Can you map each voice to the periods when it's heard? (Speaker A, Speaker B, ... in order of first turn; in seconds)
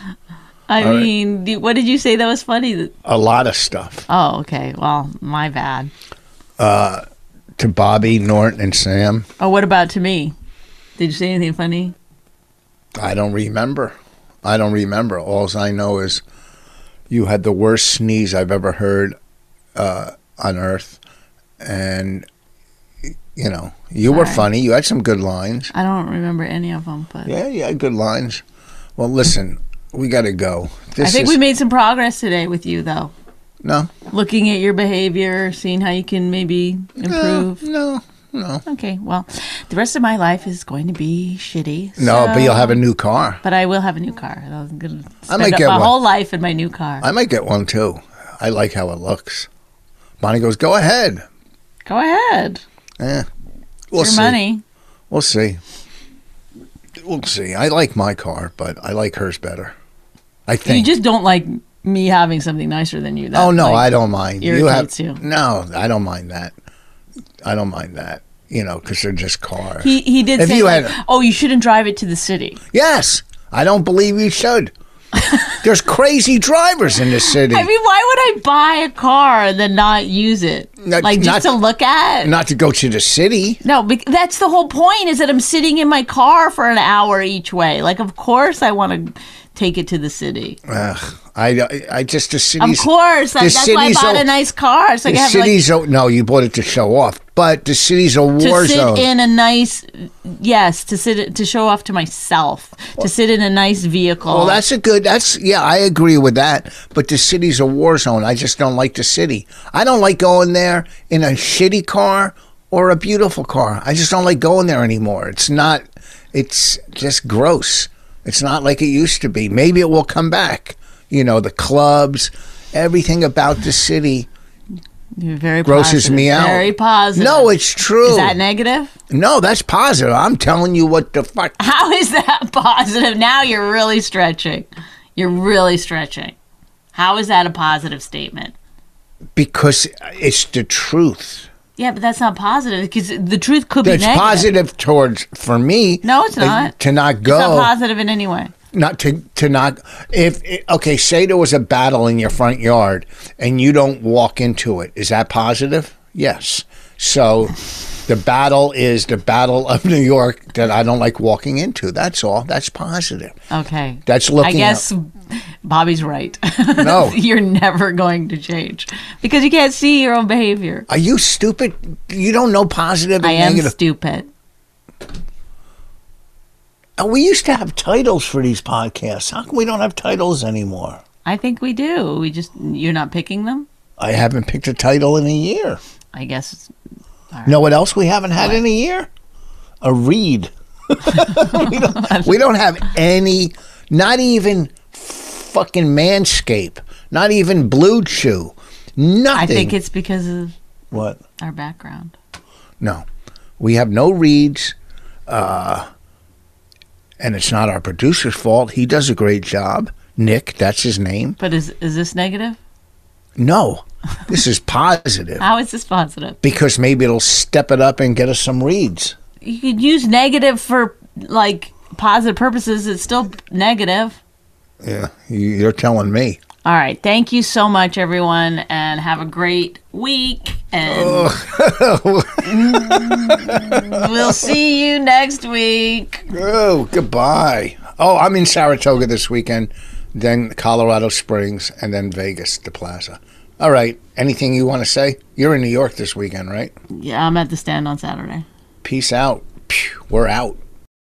Speaker A: 0.7-2.9, 4.1-5.9, 9.4-10.3, 11.0-11.9, 24.1-24.4, 25.7-27.3, 31.0-33.1, 34.1-37.6, 38.6-42.8, 43.4-47.0, 51.9-52.6, 54.0-54.6, 60.6-65.2, 69.8-72.6, 77.3-82.3, 83.6-90.6, 92.6-95.6, 98.4-104.6, 125.2-128.9, 131.6-136.3, 136.9-138.5, 141.8-144.5, 146.0-148.5, 163.5-170.9, 173.2-174.3, 181.2-183.7, 186.1-186.7, 187.3-187.6, 191.2-192.3, 199.3-200.5, 201.4-202.1, 211.4-212.6, 215.4-216.4, 219.4-224.2, 226.6-231.3, 232.4-236.2, 246.9-248.4
Speaker B: 0.8-1.1, 3.0-4.1, 6.6-7.0, 7.6-9.2, 12.9-16.2, 17.1-19.1, 19.7-21.0, 21.6-22.2, 23.3-25.7, 27.2-28.4, 29.0-31.4, 33.6-33.9, 37.0-38.6, 42.0-43.4, 45.3-45.9, 47.0-49.5, 50.2-51.2, 53.0-53.3, 53.9-54.4, 55.1-55.6, 57.0-59.8, 60.5-60.9, 63.3-66.5, 67.4-70.9, 72.7-74.7, 75.6-77.7, 80.8-81.6, 82.2-83.6, 90.7-94.3, 95.0-99.1, 104.3-124.3, 125.6-128.4, 129.1-131.6, 139.3-141.5, 143.8-147.7, 148.7-163.3, 164.1-164.8, 166.8-167.2, 170.9-173.7, 177.0-181.0, 184.0-185.8, 187.4-189.1, 189.8-199.8, 200.9-201.2, 202.8-203.0, 203.6-204.7, 205.3-205.9, 207.2-211.4, 213.4-215.4, 216.4-219.2, 224.8-226.4, 230.9-234.5, 236.3-246.7, 248.8-250.6